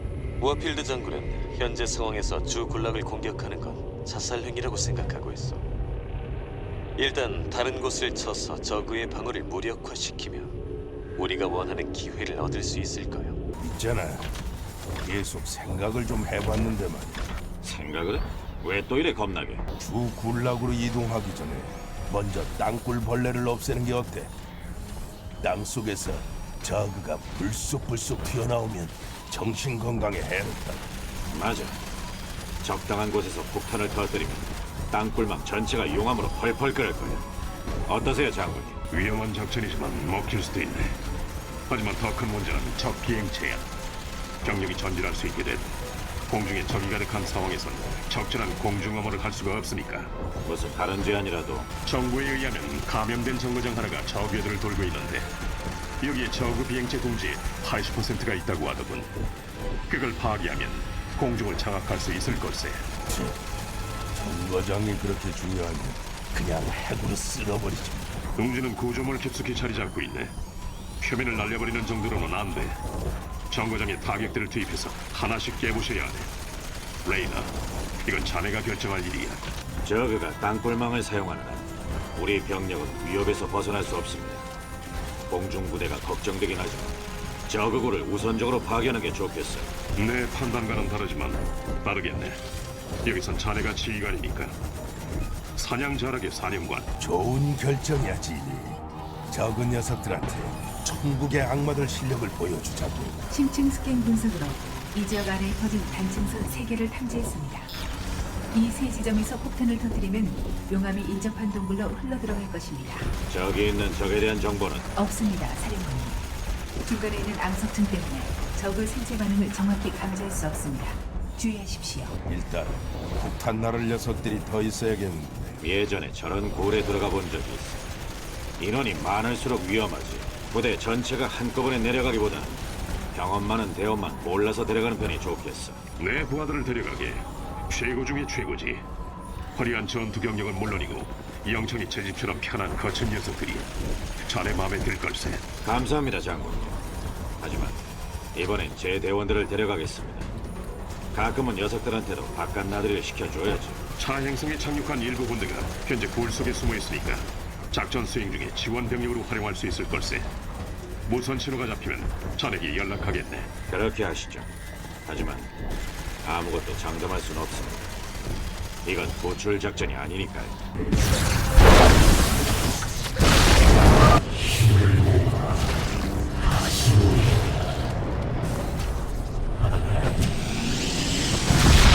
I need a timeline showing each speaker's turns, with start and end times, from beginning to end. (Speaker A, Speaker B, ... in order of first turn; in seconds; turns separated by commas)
Speaker A: 0.4-5.6, Speaker A: 7.0-10.5, Speaker A: 11.2-13.4, Speaker B: 13.6-14.3, Speaker B: 15.0-17.3, Speaker C: 17.6-19.6, Speaker B: 19.8-24.3, Speaker B: 25.4-30.9, Speaker C: 31.3-31.8, Speaker C: 32.6-37.3, Speaker C: 37.9-38.8, Speaker D: 38.9-41.0, Speaker D: 41.7-43.7, Speaker D: 44.4-45.7, Speaker D: 46.3-50.1, Speaker C: 50.5-51.7, Speaker D: 51.9-55.3, Speaker D: 56.0-59.1, Speaker D: 59.9-62.9, Speaker B: 63.1-63.4, Speaker B: 64.2-68.2, Speaker D: 68.4-70.3, Speaker D: 71.0-72.8, Speaker D: 73.5-76.3, Speaker D: 77.0-79.5, Speaker C: 79.8-84.5, Speaker C: 85.3-87.0, Speaker C: 87.5-89.8, Speaker D: 90.0-92.4, Speaker D: 93.0-94.6, Speaker D: 95.6-96.9, Speaker B: 97.0-103.2, Speaker E: 103.3-107.7, Speaker E: 108.5-113.1, Speaker C: 113.3-114.8, Speaker E: 114.9-116.3, Speaker E: 116.8-122.2, Speaker B: 122.2-125.6, Speaker C: 125.6-127.8, Speaker C: 128.6-132.6, Speaker C: 133.1-135.8, Speaker D: 136.0-138.8, Speaker D: 139.6-145.5, Speaker C: 145.6-146.8, Speaker C: 147.4-147.8, Speaker C: 148.3-150.3, Speaker C: 151.1-153.8, Speaker D: 154.0-160.3, Speaker D: 161.1-163.6, Speaker C: 163.7-164.5, Speaker C: 165.1-165.5, Speaker C: 166.2-167.9, Speaker C: 168.8-170.6